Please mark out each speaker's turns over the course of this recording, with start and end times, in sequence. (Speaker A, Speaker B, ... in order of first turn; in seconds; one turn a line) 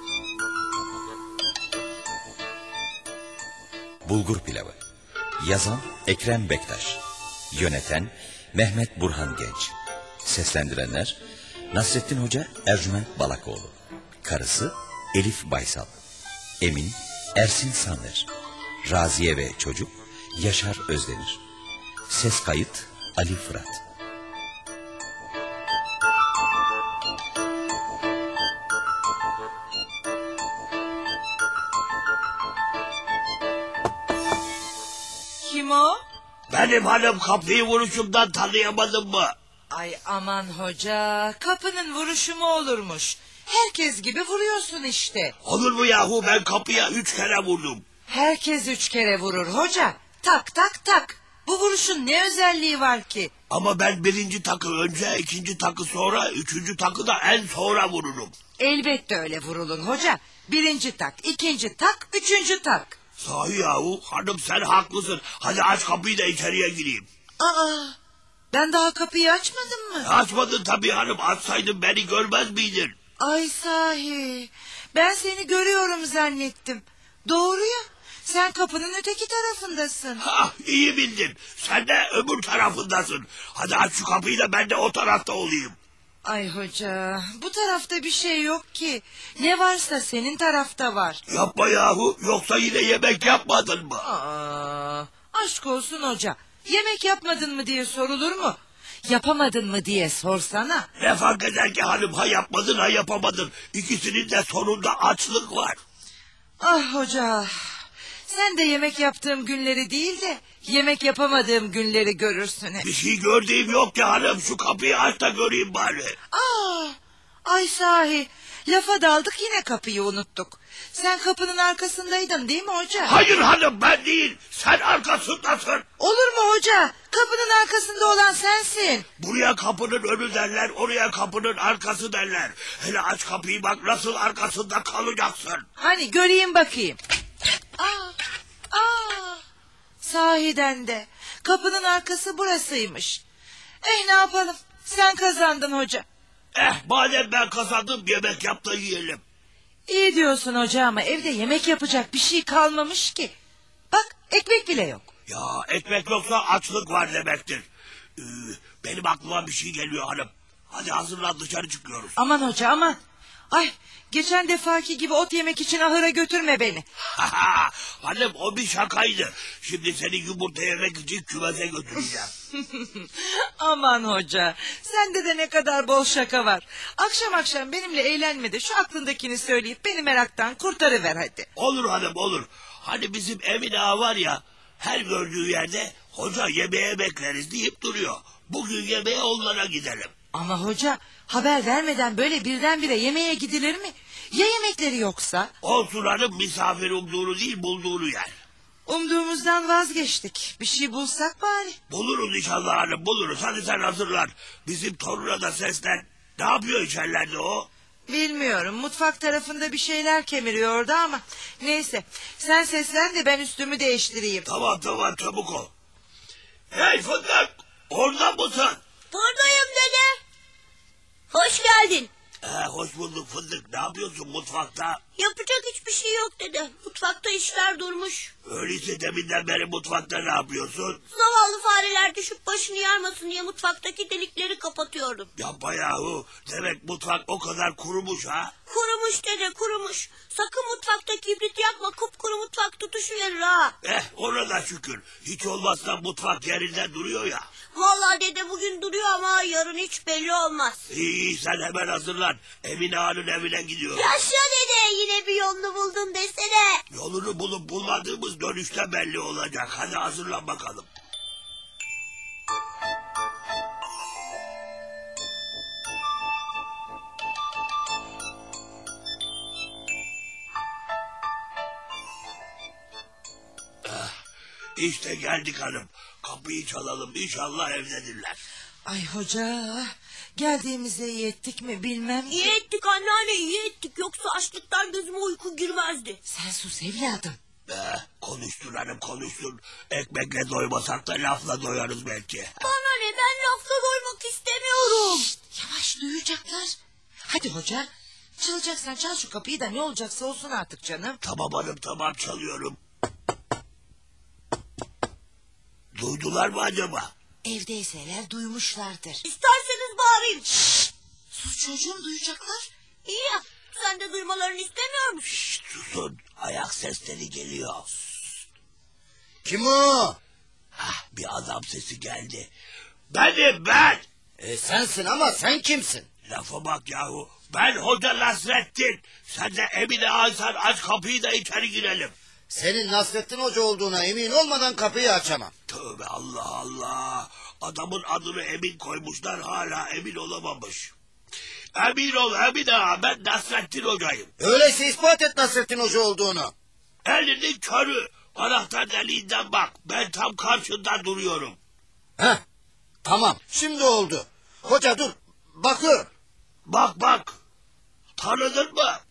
Speaker A: 4.0-4.8
Speaker A: 5.4-11.2
Speaker A: 11.7-15.9
Speaker A: 16.6-18.3
Speaker A: 18.8-21.4
Speaker A: 22.1-23.8
Speaker B: 35.4-36.0
Speaker C: 36.5-39.4
Speaker B: 39.7-45.4
Speaker C: 45.4-47.8
Speaker B: 48.1-53.3
Speaker C: 53.5-58.3
Speaker B: 58.6-63.0
Speaker C: 63.2-67.1
Speaker B: 67.4-68.0
Speaker B: 68.5-70.1
Speaker C: 70.0-73.0
Speaker B: 73.2-80.2
Speaker C: 80.2-85.8
Speaker B: 86.2-91.2
Speaker C: 91.3-94.1
Speaker B: 94.0-100.9
Speaker C: 101.0-105.8
Speaker B: 106.6-107.5
Speaker B: 108.3-112.9
Speaker C: 112.8-116.2
Speaker B: 116.3-123.2
Speaker C: 123.1-125.9
Speaker B: 126.0-129.1
Speaker C: 129.2-135.7
Speaker B: 135.8-137.0
Speaker B: 137.8-138.2
Speaker B: 138.7-139.4
Speaker B: 140.0-143.2
Speaker B: 143.8-146.1
Speaker C: 146.6-149.2
Speaker B: 149.9-153.3
Speaker B: 153.9-155.1
Speaker C: 155.3-157.7
Speaker C: 158.2-162.2
Speaker B: 162.2-163.0
Speaker B: 163.5-166.9
Speaker C: 167.2-172.3
Speaker B: 172.5-181.5
Speaker C: 181.6-190.1
Speaker B: 190.3-195.5
Speaker C: 195.6-198.3
Speaker B: 198.9-201.8
Speaker C: 201.9-207.7
Speaker B: 208.1-214.5
Speaker C: 214.4-215.7
Speaker C: 216.7-218.8
Speaker D: 219.1-220.2
Speaker D: 221.3-222.1
Speaker C: 222.4-225.0
Speaker D: 225.2-228.3
Speaker C: 228.4-231.0
Speaker D: 231.1-235.3
Speaker C: 235.4-238.5
Speaker D: 238.7-243.8
Speaker C: 243.8-247.5
Speaker D: 247.7-250.8
Speaker C: 250.9-254.1
Speaker D: 253.9-256.8
Speaker C: 256.9-260.9
Speaker C: 273.8-274.1
Speaker C: 274.8-278.4
Speaker B: 278.9-282.6
Speaker D: 282.3-286.2
Speaker B: 286.3-287.4
Speaker C: 287.7-292.6
Speaker D: 292.6-295.3
Speaker B: 295.5-296.8
Speaker B: 297.3-297.9
Speaker B: 298.4-301.2
Speaker C: 301.2-302.8
Speaker C: 305.9-307.1
Speaker B: 307.4-309.2
Speaker D: 309.2-310.5
Speaker B: 311.3-312.7
Speaker D: 313.1-315.3
Speaker C: 315.2-317.9
Speaker E: 319.4-320.2
Speaker C: 320.8-322.5
Speaker C: 323.1-324.1
Speaker E: 324.4-326.1
Speaker C: 326.3-332.1
Speaker E: 332.5-335.5
Speaker C: 335.7-340.9
Speaker C: 341.8-344.3
Speaker E: 344.4-346.5
Speaker C: 347.0-351.6
Speaker E: 353.0-356.1
Speaker C: 356.7-357.4
Speaker C: 358.2-359.0